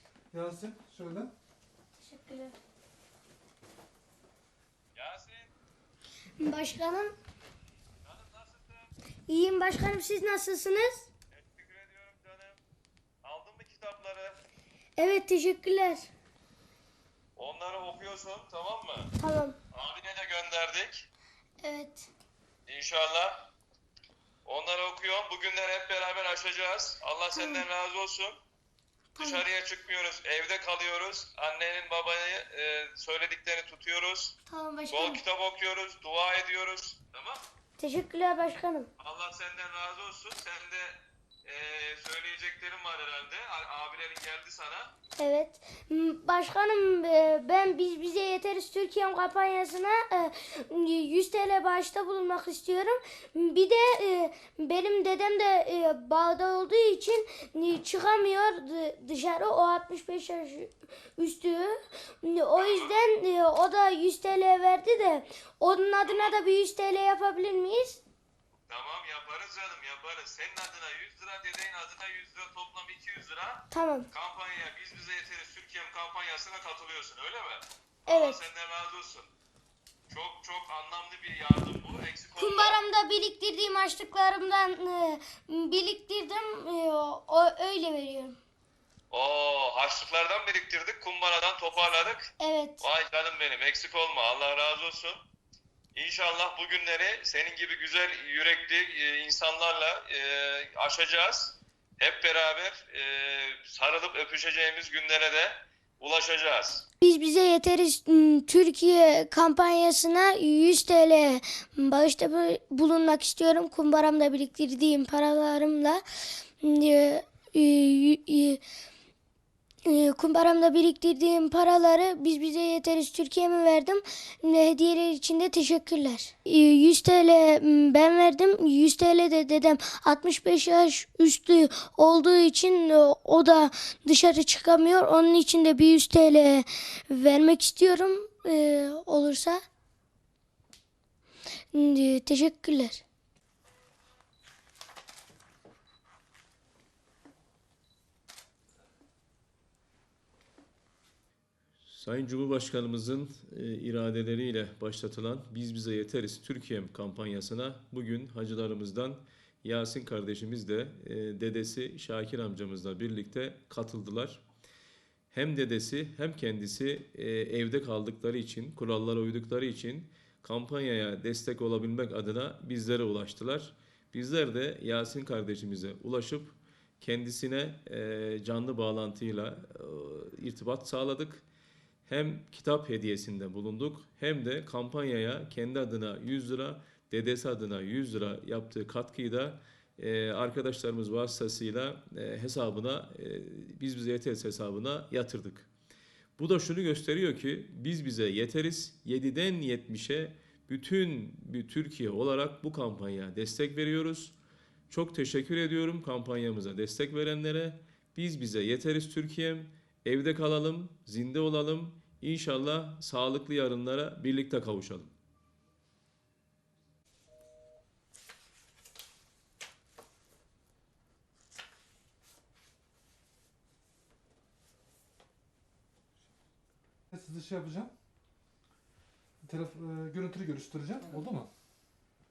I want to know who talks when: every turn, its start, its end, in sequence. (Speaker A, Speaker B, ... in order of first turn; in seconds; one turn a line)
Speaker A: 0.3-1.3
Speaker B: 1.9-2.5
Speaker C: 5.0-5.5
Speaker B: 6.3-7.2
Speaker C: 8.1-8.9
Speaker B: 9.3-11.1
Speaker C: 11.3-12.6
Speaker C: 13.2-14.4
Speaker B: 15.0-16.1
Speaker C: 17.4-19.1
Speaker B: 19.2-19.6
Speaker C: 19.7-21.1
Speaker B: 21.6-22.1
Speaker C: 22.7-23.5
Speaker C: 24.4-28.4
Speaker B: 27.3-27.6
Speaker B: 29.2-29.5
Speaker C: 29.2-34.3
Speaker B: 34.5-35.2
Speaker C: 34.9-37.5
Speaker B: 37.8-38.9
Speaker C: 39.0-44.9
Speaker B: 45.2-68.0
Speaker C: 62.6-63.0
Speaker C: 66.0-66.3
Speaker C: 68.7-79.3
Speaker B: 73.7-74.1
Speaker B: 78.1-78.4
Speaker C: 80.1-82.8
Speaker B: 82.4-88.4
Speaker C: 89.1-92.3
Speaker B: 92.4-92.8
Speaker C: 92.8-95.2
Speaker C: 96.0-106.8
Speaker B: 107.0-116.0
Speaker B: 116.6-118.6
Speaker B: 119.8-139.6
Speaker B: 141.7-143.0
Speaker D: 151.9-164.4
Speaker D: 165.3-181.4
Speaker D: 182.1-195.7
Speaker D: 196.4-204.3
Speaker D: 204.9-215.1
Speaker A: 227.1-227.9
Speaker A: 229.4-231.5